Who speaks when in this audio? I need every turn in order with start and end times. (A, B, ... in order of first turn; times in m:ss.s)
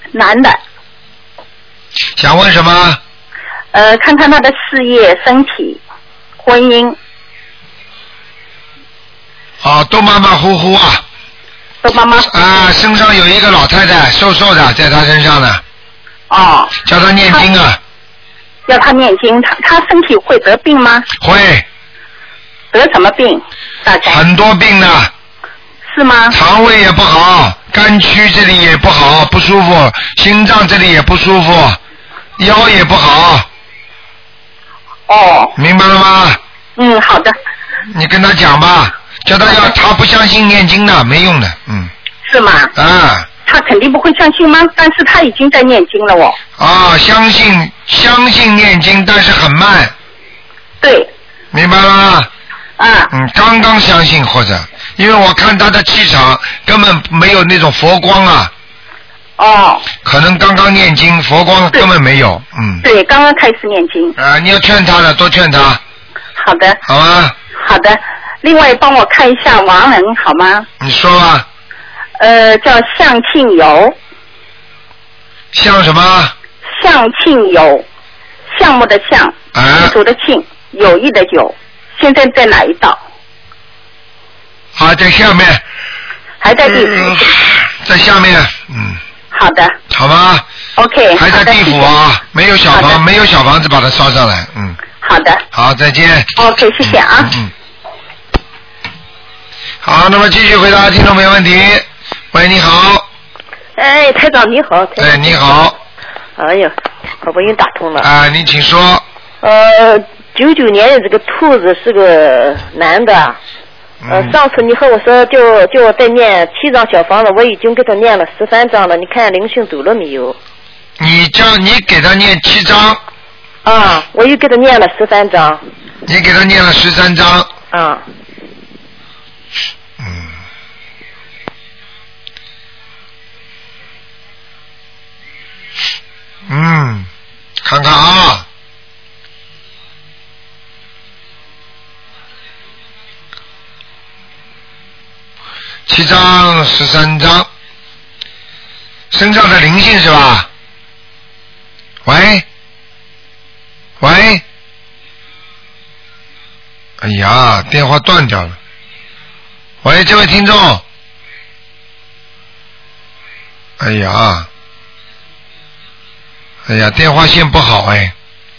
0:00.1-0:00.6 A
0:02.2-0:03.0 B
0:03.7-0:05.8 A
0:06.4-0:07.0 A
0:09.6-0:11.0 B
0:11.8-0:12.3 A
0:12.3-0:15.6 B
0:16.3-0:16.7 A
0:16.8-0:17.8 B
0:18.7-0:21.1 A
0:21.2-0:21.6 B
0:22.7-0:24.2 A
0:24.0-0:25.1 B
0:25.9-0:26.4 A
0:26.3-0:31.8 B
0:32.4-0:33.5 B
0:35.1-0:35.5 A
0:35.6-0:36.4 B
0:36.8-0:37.4 A
0:37.9-0:41.9 B
0:42.2-0:42.7 A
0:42.8-0:43.3 B
0:43.5-0:46.4 A
0:46.6-0:49.9 B
0:50.8-0:51.1 A
0:51.5-0:52.3 B
0:52.8-0:53.1 A
0:53.1-0:58.5 B
0:59.4-0:59.9 A
1:00.0-1:02.8 B
1:02.8-1:04.1 A
1:04.2-1:05.8 B
1:06.4-1:06.8 A
1:06.8-1:07.3 B
1:07.6-1:10.7 A
1:10.8-1:11.5 B
1:12.2-1:14.0 A
1:15.5-1:16.3 B
1:16.7-1:17.8 A
1:18.5-1:23.0 A
1:19.6-1:20.0 B
1:24.8-1:25.6 B
1:26.4-1:27.2 A
1:26.7-1:29.0 B
1:29.3-1:29.8 A
1:29.9-1:30.4 B
1:30.8-1:31.9 A
1:31.2-1:34.8 B
1:32.7-1:33.0 A
1:35.0-1:35.4 A
1:35.5-1:37.5 B
1:36.4-1:37.3 A
1:39.8-1:43.1 B
1:43.8-1:45.4 C
1:45.0-1:45.8 B
1:46.4-1:48.1 C
1:48.0-1:49.0 B
1:49.4-1:53.4 C
1:54.0-1:54.4 B
1:54.1-2:00.4 C
2:01.0-2:03.0 B
2:03.6-2:05.6 C
2:06.1-2:07.5 B
2:07.7-2:08.0 C
2:10.0-2:10.3 B
2:16.5-2:17.1 B
2:17.6-2:18.5 B
2:25.9-2:27.5 B
2:29.1-2:30.5 B
2:32.1-2:32.4 B
2:34.0-2:34.4 B
2:37.0-2:38.6 B
2:39.8-2:40.8 B
2:43.8-2:44.5 B
2:46.7-2:48.1 B